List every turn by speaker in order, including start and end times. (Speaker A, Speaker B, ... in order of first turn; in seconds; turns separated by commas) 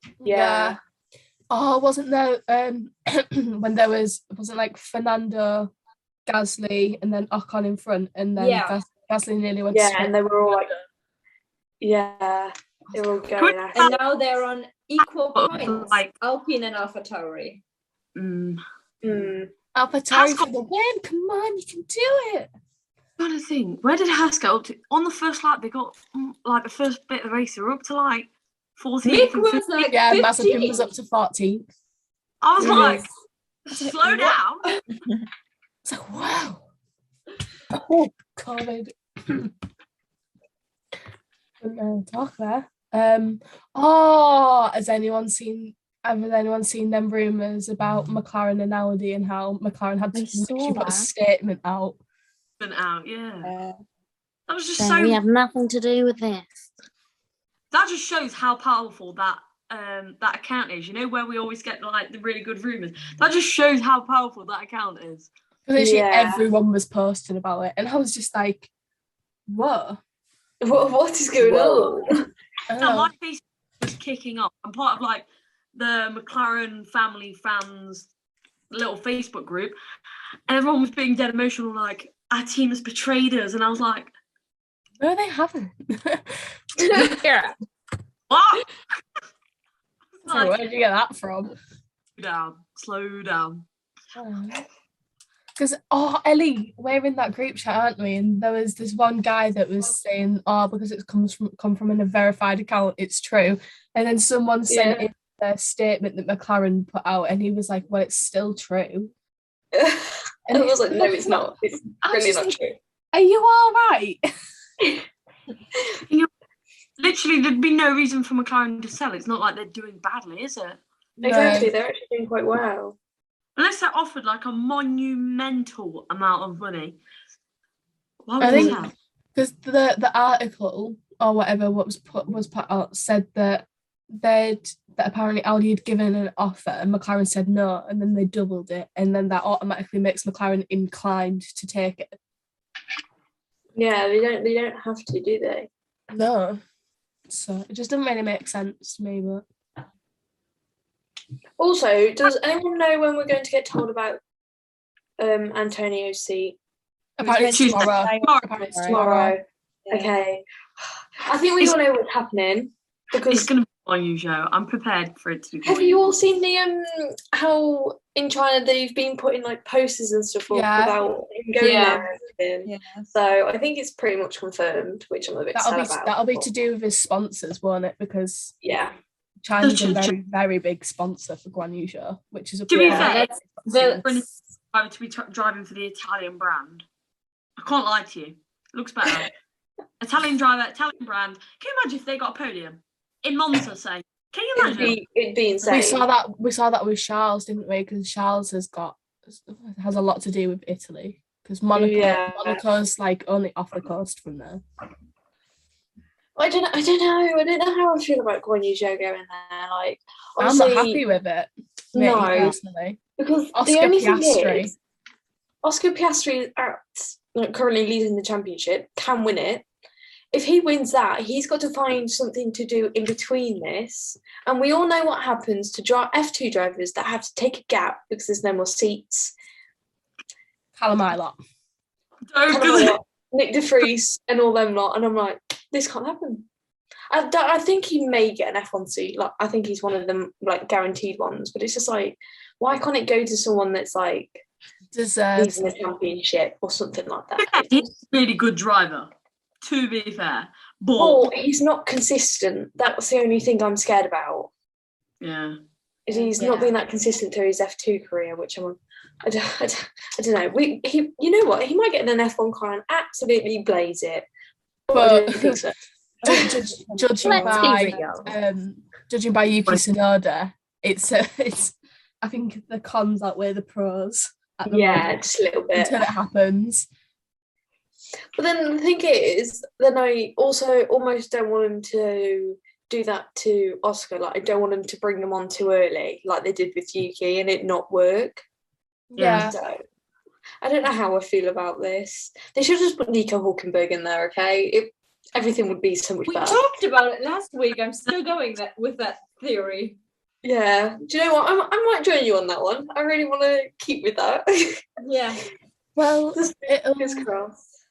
Speaker A: 0.2-0.8, Speaker B: 0.2-0.8, Speaker A: 1.5-5.7, Speaker A: 6.3-10.1, Speaker C: 8.3-8.8, Speaker B: 9.7-10.7, Speaker B: 11.8-14.0, Speaker D: 13.3-14.0, Speaker C: 13.7-17.6, Speaker D: 15.3-16.1, Speaker D: 18.1-18.6, Speaker B: 19.0-19.5, Speaker A: 19.7-22.5, Speaker D: 20.1-20.5, Speaker D: 23.2-29.7, Speaker C: 29.0-30.8, Speaker A: 29.9-31.7, Speaker D: 32.4-33.1, Speaker B: 32.6-33.0, Speaker D: 33.7-34.8, Speaker A: 35.8-36.6, Speaker A: 37.7-39.5, Speaker A: 41.6-52.0, Speaker E: 50.1-51.1, Speaker D: 52.6-53.5, Speaker F: 53.4-53.8, Speaker D: 54.5-55.2, Speaker E: 54.8-56.7, Speaker D: 57.7-65.3, Speaker A: 65.7-68.7, Speaker B: 65.8-66.5, Speaker A: 69.5-70.0, Speaker B: 70.6-72.2, Speaker A: 72.7-73.1, Speaker D: 72.8-78.1, Speaker D: 78.7-79.8, Speaker D: 80.5-84.1, Speaker A: 85.0-86.3, Speaker B: 86.8-87.2, Speaker A: 86.9-87.2, Speaker D: 88.3-88.7, Speaker D: 90.2-90.6, Speaker A: 90.2-91.5, Speaker D: 92.2-93.6, Speaker A: 94.2-94.6, Speaker A: 95.6-109.1, Speaker B: 104.7-105.0, Speaker B: 109.7-112.8, Speaker A: 110.5-111.4, Speaker A: 112.0-112.6, Speaker A: 113.1-114.2, Speaker D: 117.0-120.8, Speaker B: 121.2-123.0, Speaker A: 121.2-121.7, Speaker D: 123.5-127.0, Speaker D: 128.2-128.9, Speaker A: 128.4-142.1, Speaker B: 143.7-145.7, Speaker A: 146.1-146.6, Speaker A: 147.3-149.4, Speaker B: 151.6-154.2, Speaker B: 155.2-156.6, Speaker F: 157.2-159.1, Speaker A: 157.2-159.3, Speaker D: 157.4-158.6, Speaker B: 158.8-160.4, Speaker F: 159.8-160.1, Speaker B: 161.2-163.5, Speaker D: 163.3-166.1, Speaker B: 165.6-176.5, Speaker A: 170.5-171.0, Speaker C: 171.6-172.0, Speaker F: 172.6-173.1, Speaker A: 175.5-178.5, Speaker B: 178.6-178.9, Speaker A: 179.4-183.1, Speaker D: 179.6-180.1, Speaker D: 182.7-186.8, Speaker B: 182.7-183.1, Speaker C: 182.9-184.1, Speaker D: 187.6-189.3, Speaker D: 190.0-195.0, Speaker B: 194.6-196.1, Speaker A: 195.7-204.6, Speaker B: 201.7-202.6, Speaker B: 206.3-211.0, Speaker A: 210.4-213.0, Speaker B: 211.9-212.5, Speaker B: 213.2-214.7, Speaker A: 213.5-214.7, Speaker B: 215.6-219.7, Speaker B: 220.3-229.3, Speaker A: 230.8-231.4, Speaker D: 232.3-233.0, Speaker B: 232.5-236.4, Speaker B: 237.1-244.4, Speaker A: 244.9-245.7, Speaker B: 245.3-247.9, Speaker D: 247.4-249.1, Speaker D: 249.6-251.3, Speaker B: 251.0-254.5, Speaker D: 255.2-255.6, Speaker B: 256.1-264.2, Speaker C: 256.4-256.7, Speaker B: 264.9-265.8, Speaker A: 264.9-265.6, Speaker F: 266.2-267.8, Speaker A: 266.3-275.2, Speaker E: 267.2-268.3, Speaker B: 274.7-276.0, Speaker A: 275.7-276.9, Speaker B: 278.4-288.4, Speaker A: 289.1-289.6, Speaker D: 289.2-289.5, Speaker B: 289.4-289.8, Speaker B: 290.6-296.6, Speaker C: 296.2-300.0, Speaker B: 300.4-304.8, Speaker C: 305.0-305.4, Speaker A: 305.9-307.3, Speaker B: 306.4-307.6